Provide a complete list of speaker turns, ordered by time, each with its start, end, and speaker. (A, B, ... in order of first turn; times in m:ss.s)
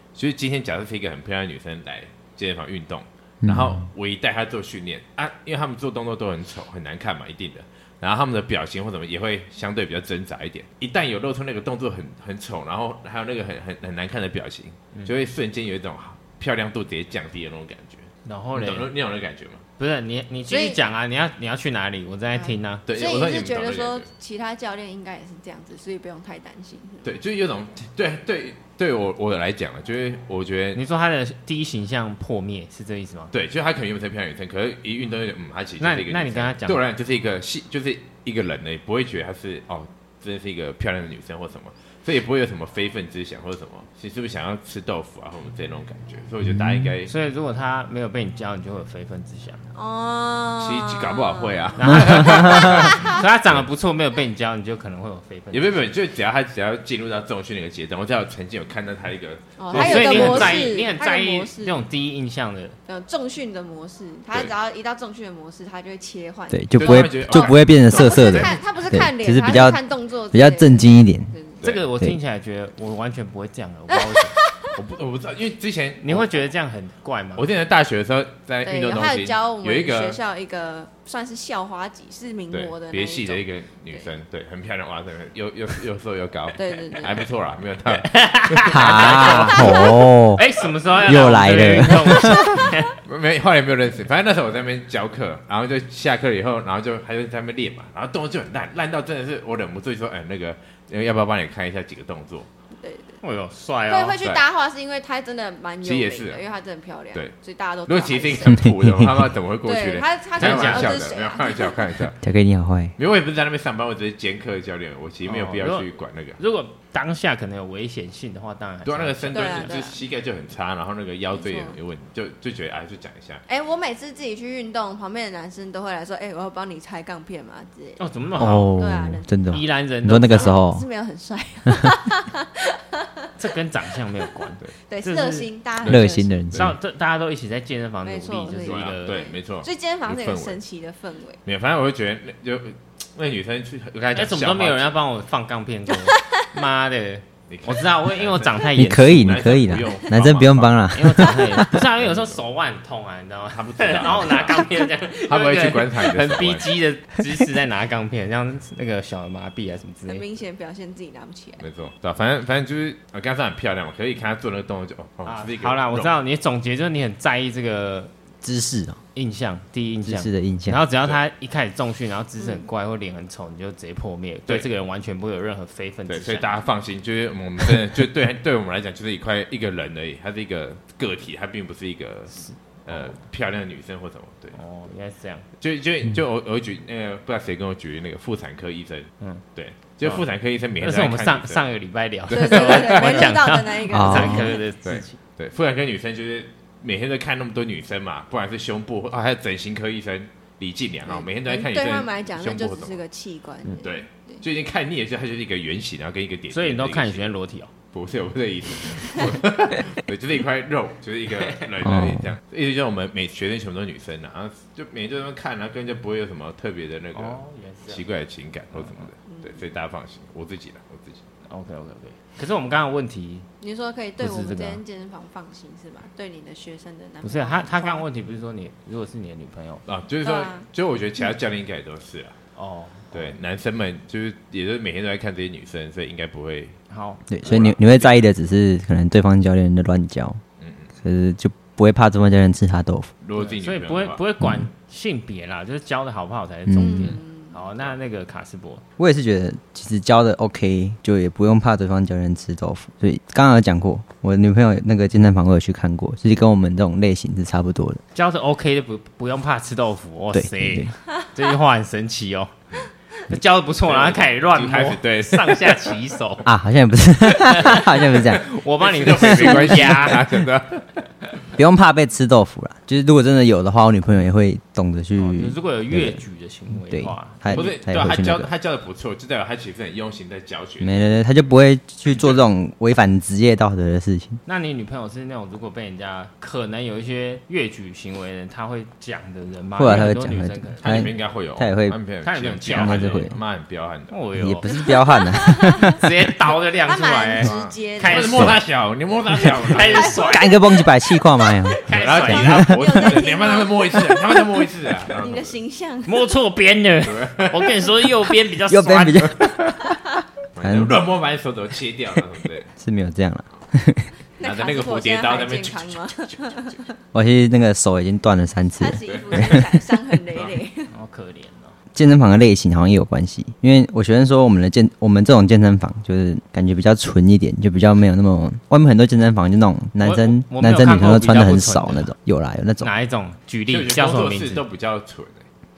0:00.1-0:19.6 A
0:03.4-0:03.8 B
0:18.2-0:18.9 C
0:19.8-0:22.8 C
0:20.5-0:20.8 D
0:22.4-0:27.2 D
0:22.9-0:24.1 A
0:27.0-0:30.8 A
0:30.7-0:33.3 C
0:33.3-0:47.1 A
0:35.8-0:36.8 C
0:47.0-0:49.6 C
0:49.7-0:53.2 D
0:50.6-0:53.2 A
0:51.8-0:55.9 C
0:55.5-1:00.8 A
0:59.6-1:01.8 D
0:59.7-1:02.8 C
1:02.9-1:11.6 D
1:06.5-1:11.3 B
1:06.7-1:08.6 A
1:11.6-1:14.4 C
1:14.1-1:14.5 D
1:14.7-1:16.5 A
1:16.0-1:17.4 C
1:17.4-1:20.2 A
1:18.6-1:24.1 D
1:22.5-1:29.7 A
1:26.5-1:27.3 D
1:27.9-1:32.9 C
1:28.6-1:30.4 B
1:29.5-1:29.9 D
1:31.0-1:32.6 B
1:32.9-1:42.5 A
1:42.8-1:43.2 D
1:43.2-1:44.2 C
1:43.9-1:48.7 D
1:45.8-1:46.4 A
1:47.8-1:52.2 A
1:48.6-1:49.3 B
1:49.6-1:52.0 D
1:50.4-1:51.0 C
1:52.2-1:52.9 B
1:53.0-1:56.4 A
1:55.2-1:59.8 C
1:58.8-2:03.4 A
1:59.3-2:00.0 D
2:01.3-2:01.8 D
2:03.5-2:09.4 D
2:08.0-2:08.7 C
2:08.4-2:10.8 B
2:09.5-2:10.6 C
2:10.3-2:13.3 D
2:13.4-2:15.5 C
2:14.9-2:16.4 D
2:15.8-2:16.7 A
2:15.8-2:16.7 B
2:16.5-2:19.2 C
2:18.0-2:21.4 D
2:18.6-2:20.6 A
2:21.4-2:24.9 A
2:24.1-2:29.2 C
2:27.5-2:30.9 A
2:28.7-2:31.8 B
2:30.9-2:40.2 C
2:32.0-2:32.4 A
2:33.6-2:34.7 A
2:35.2-2:36.7 A
2:40.1-2:41.6 D
2:41.6-2:46.1 A
2:45.2-2:48.1 C
2:48.4-2:49.0 B
2:49.1-2:56.6 C
2:50.0-2:50.8 B
2:56.1-3:04.6 A
3:02.3-3:03.2 C
3:04.5-3:05.4 C
3:05.6-3:11.6 A
3:10.8-3:15.2 C
3:12.3-3:13.4 A
3:12.3-3:14.6 D
3:13.9-3:14.5 B
3:14.8-3:23.0 A
3:21.0-3:24.4 D
3:23.8-3:27.3 A
3:26.5-3:27.7 C
3:27.9-3:41.2 A
3:31.4-3:31.7 C
3:31.8-3:32.3 B
3:37.1-3:38.2 C
3:38.7-3:39.1 C
3:39.3-3:39.6 D
3:41.5-3:43.5 C
3:43.6-3:48.0 D
3:44.2-3:44.8 C
3:47.2-3:49.8 C
3:49.8-3:52.4 A
3:50.2-3:50.7 D
3:52.5-3:53.4 C
3:53.1-3:56.8 A
3:56.9-3:57.2 C
3:57.3-4:00.4 B
3:57.4-3:58.2 A
4:00.6-4:00.9 A
4:01.0-4:03.1 B
4:03.2-4:04.2 A
4:03.4-4:08.8 C
4:04.4-4:04.6 B
4:06.7-4:07.2 B
4:06.8-4:07.6 D
4:09.0-4:18.0 B
4:18.1-4:22.5 C
4:20.3-4:20.9 B
4:23.3-4:26.5 C
4:23.8-4:26.0 A
4:26.4-4:28.4 B
4:27.3-4:30.3 C
4:28.8-4:31.0 A
4:29.2-4:29.7 B
4:31.6-4:36.2 B
4:35.2-4:37.7 C
4:36.8-4:38.5 B
4:37.5-4:41.2 A
4:40.8-4:44.4 B
4:42.1-4:42.4 A
4:44.4-4:51.1 C
4:49.8-4:52.0 B
4:50.8-4:54.2 A
4:52.2-4:53.2 C
4:52.7-4:53.3 B
4:54.1-4:54.9 C
4:54.4-4:56.0 B
4:54.7-4:56.0 D
4:55.8-4:58.6 C
4:56.7-4:58.6 D
4:57.4-5:00.2 A
4:59.6-5:00.5 D
4:59.7-5:00.8 C
5:00.1-5:01.8 B
5:01.7-5:02.7 C
5:01.9-5:05.6 A
5:02.1-5:06.3 D
5:02.4-5:02.7 B
5:06.0-5:09.3 C
5:07.0-5:07.9 A
5:08.7-5:10.0 B
5:10.5-5:12.7 A
5:10.6-5:11.0 B
5:12.8-5:14.1 B
5:14.4-5:17.0 D
5:14.4-5:16.4 A
5:17.1-5:19.8 B
5:18.8-5:20.9 D
5:19.0-5:19.6 A
5:20.9-5:21.7 C
5:21.9-5:32.9 B
5:30.0-5:32.1 C
5:32.8-5:34.6 C
5:33.7-5:35.4 A